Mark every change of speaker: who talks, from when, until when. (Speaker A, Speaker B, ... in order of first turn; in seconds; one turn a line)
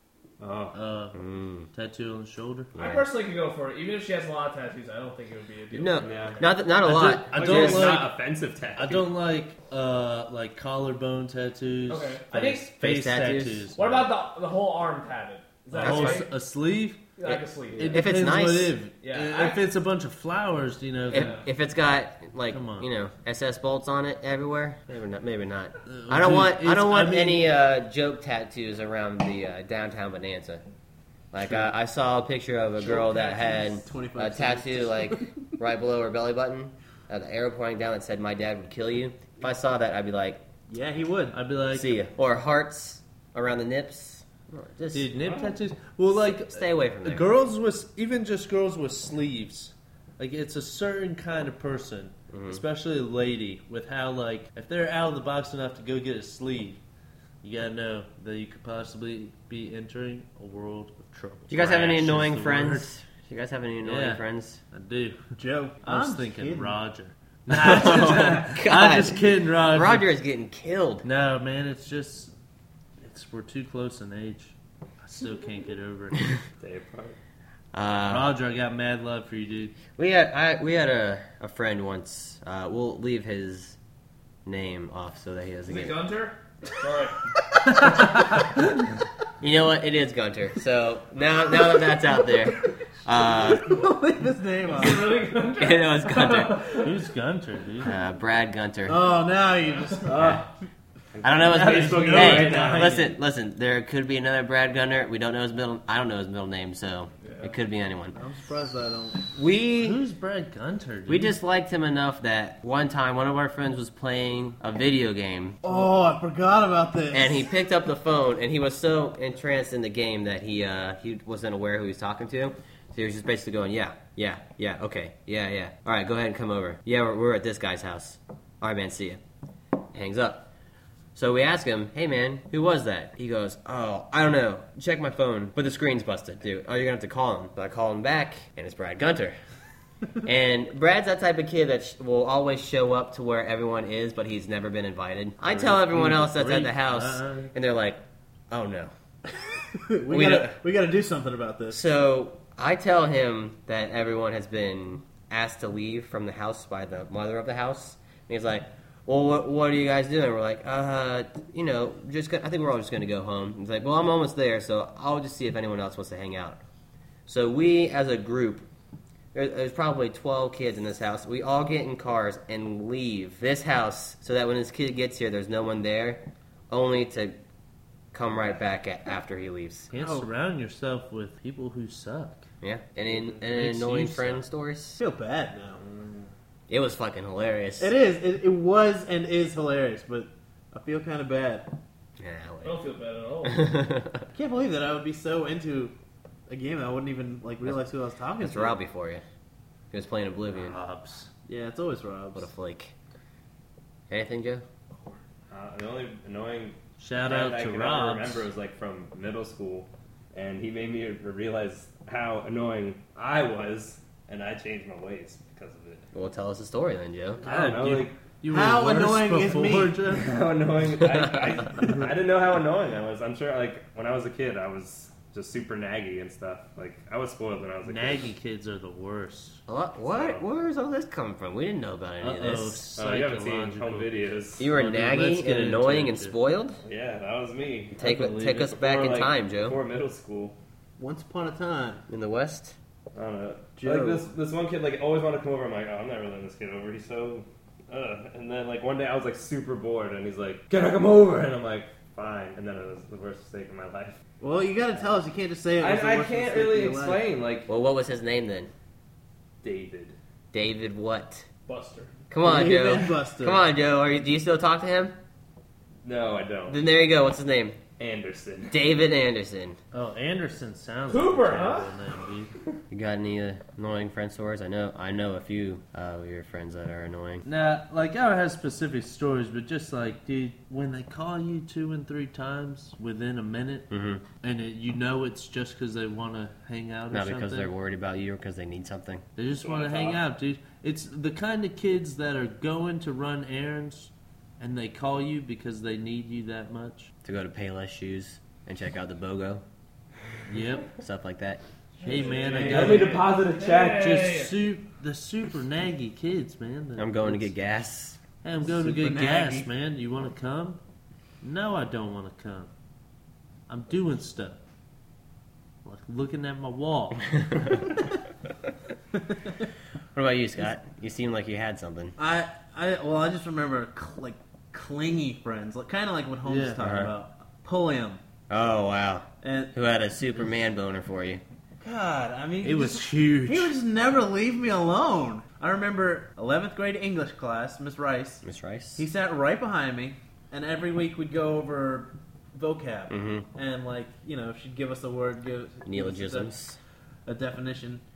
Speaker A: 0.4-0.8
Speaker B: 0.7-2.8
Speaker C: 1.1-1.7
Speaker C: 2.8-3.1
Speaker D: 2.8-6.5
Speaker C: 5.7-8.0
Speaker A: 6.0-6.4
Speaker B: 6.8-8.2
Speaker A: 7.3-9.1
Speaker B: 8.8-14.1
Speaker D: 11.9-12.7
Speaker C: 12.7-13.7
Speaker D: 13.7-16.3
Speaker B: 15.7-17.1
Speaker C: 15.8-16.2
Speaker D: 17.2-18.1
Speaker C: 17.2-18.8
Speaker B: 17.8-21.4
Speaker D: 19.0-19.6
Speaker C: 21.1-30.6
Speaker D: 21.1-21.4
Speaker B: 22.5-22.9
Speaker B: 25.9-27.5
Speaker C: 31.3-40.4
Speaker E: 32.8-35.3
Speaker E: 40.7-41.4
Speaker B: 41.3-42.0
Speaker C: 41.7-45.2
Speaker B: 44.9-56.8
Speaker C: 46.2-47.3
Speaker C: 52.3-52.6
Speaker B: 57.4-62.9
Speaker C: 61.5-64.6
Speaker B: 63.8-70.1
Speaker E: 65.4-66.8
Speaker C: 67.5-71.1
Speaker B: 71.0-72.3
Speaker B: 73.0-76.2
Speaker A: 76.6-77.2
Speaker C: 77.7-78.3
Speaker B: 78.1-79.8
Speaker C: 80.0-83.8
Speaker C: 84.5-86.1
Speaker D: 85.7-87.2
Speaker C: 89.4-93.8
Speaker E: 93.2-95.2
Speaker D: 94.7-97.0
Speaker C: 95.6-96.6
Speaker B: 96.8-97.9
Speaker C: 97.8-99.1
Speaker E: 98.9-100.5
Speaker C: 100.1-100.4
Speaker A: 101.2-103.0
Speaker C: 101.2-108.2
Speaker B: 101.5-103.1
Speaker D: 107.2-107.5
Speaker E: 108.1-109.2
Speaker C: 109.3-110.0
Speaker B: 109.8-111.3
Speaker C: 111.1-115.6
Speaker E: 115.6-117.5
Speaker C: 117.1-129.2
Speaker C: 129.9-130.5
Speaker C: 131.2-139.4
Speaker C: 140.2-148.9
Speaker B: 145.4-147.5
Speaker E: 149.7-151.8
Speaker C: 150.1-150.6
Speaker C: 151.7-166.6
Speaker C: 167.3-168.7
Speaker C: 169.3-177.4
Speaker C: 178.1-179.9
Speaker B: 179.9-182.5
Speaker E: 179.9-180.3
Speaker C: 182.6-185.0
Speaker B: 183.1-184.4
Speaker E: 185.0-185.8
Speaker A: 185.8-186.3
Speaker C: 186.7-187.9
Speaker E: 187.8-191.7
Speaker C: 192.2-192.9
Speaker D: 192.6-193.8
Speaker C: 193.4-194.3
Speaker E: 194.3-195.9
Speaker E: 196.5-198.8
Speaker C: 198.4-199.2
Speaker C: 199.9-200.8
Speaker B: 200.5-201.3
Speaker E: 201.5-202.5
Speaker C: 202.4-202.9
Speaker C: 204.1-204.6
Speaker A: 205.5-216.1
Speaker B: 207.0-208.5
Speaker C: 216.1-217.4
Speaker A: 217.4-218.2
Speaker B: 217.4-220.4
Speaker E: 218.5-220.0
Speaker A: 220.1-228.2
Speaker B: 221.8-222.2
Speaker B: 227.8-229.6
Speaker C: 229.7-232.9
Speaker A: 230.1-230.4
Speaker B: 232.2-236.4
Speaker A: 232.9-234.6
Speaker C: 234.6-236.8
Speaker A: 236.8-238.0
Speaker C: 238.0-239.8
Speaker B: 238.0-238.8
Speaker A: 238.7-240.6
Speaker E: 241.0-242.1
Speaker C: 242.1-242.8
Speaker A: 243.1-254.2
Speaker E: 243.8-244.3
Speaker E: 254.4-257.3
Speaker A: 255.8-257.7
Speaker C: 257.7-258.7
Speaker A: 259.6-260.2
Speaker C: 260.5-261.5
Speaker D: 261.7-262.1
Speaker C: 262.3-265.2
Speaker E: 262.4-263.6
Speaker A: 266.0-266.8
Speaker C: 266.7-267.8
Speaker A: 268.0-268.9
Speaker C: 268.7-269.8
Speaker B: 269.9-272.5
Speaker D: 271.1-271.9
Speaker C: 272.9-277.5
Speaker B: 277.4-283.9
Speaker C: 283.9-284.2
Speaker B: 284.4-287.7
Speaker C: 287.1-289.2
Speaker B: 289.4-297.1
Speaker A: 289.5-290.2
Speaker C: 297.2-299.6
Speaker B: 300.5-300.9
Speaker C: 301.0-301.6
Speaker D: 302.0-304.5
Speaker E: 302.0-302.7
Speaker B: 302.1-303.2
Speaker A: 302.5-304.3
Speaker B: 304.0-307.5
Speaker C: 307.0-308.2
Speaker B: 308.4-310.8
Speaker E: 308.6-309.7
Speaker B: 311.4-312.7
Speaker B: 313.7-314.6
Speaker B: 315.9-317.3
Speaker C: 320.1-322.2
Speaker E: 322.2-328.2
Speaker B: 326.4-327.0
Speaker C: 326.8-327.1
Speaker C: 328.5-331.4
Speaker E: 329.4-329.7
Speaker E: 331.8-338.4
Speaker B: 332.6-333.8
Speaker C: 338.4-339.0
Speaker E: 339.0-346.5
Speaker C: 343.1-343.5
Speaker C: 345.9-346.8
Speaker E: 347.3-348.0